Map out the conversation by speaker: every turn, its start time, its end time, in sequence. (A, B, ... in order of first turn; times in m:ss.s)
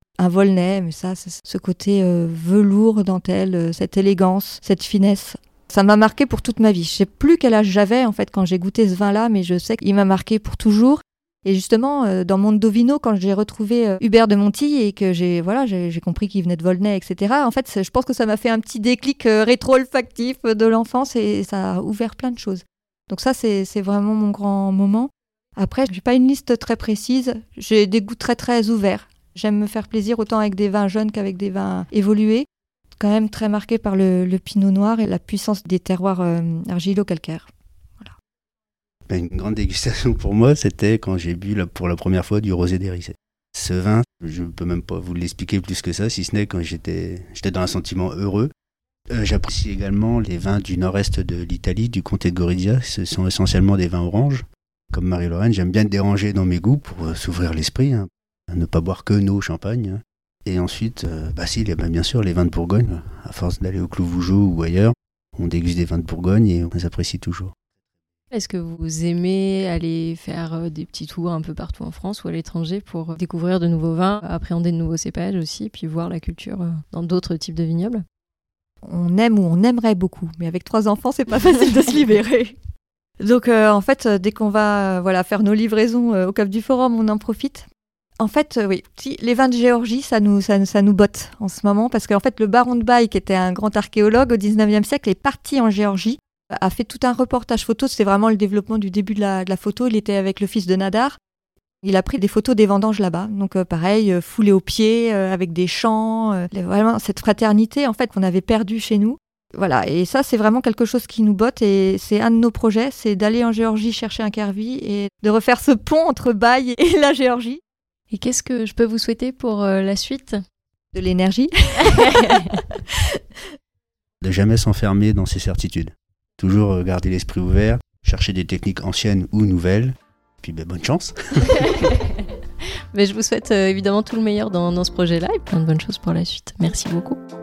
0:00.2-0:32.5 A
0:33.0-0:37.5 A
0:39.1-0:48.5 B
0:49.1-1:07.5 B
1:08.3-1:18.0 C
1:18.8-1:22.6 A
1:23.2-1:27.7 A
1:28.2-1:41.2 A
1:41.8-1:57.6 A
1:58.1-2:00.4 C
2:00.9-2:03.0 A
2:02.1-2:02.4 C
2:04.2-2:11.9 B
2:11.5-2:12.1 C
2:12.9-2:17.2 C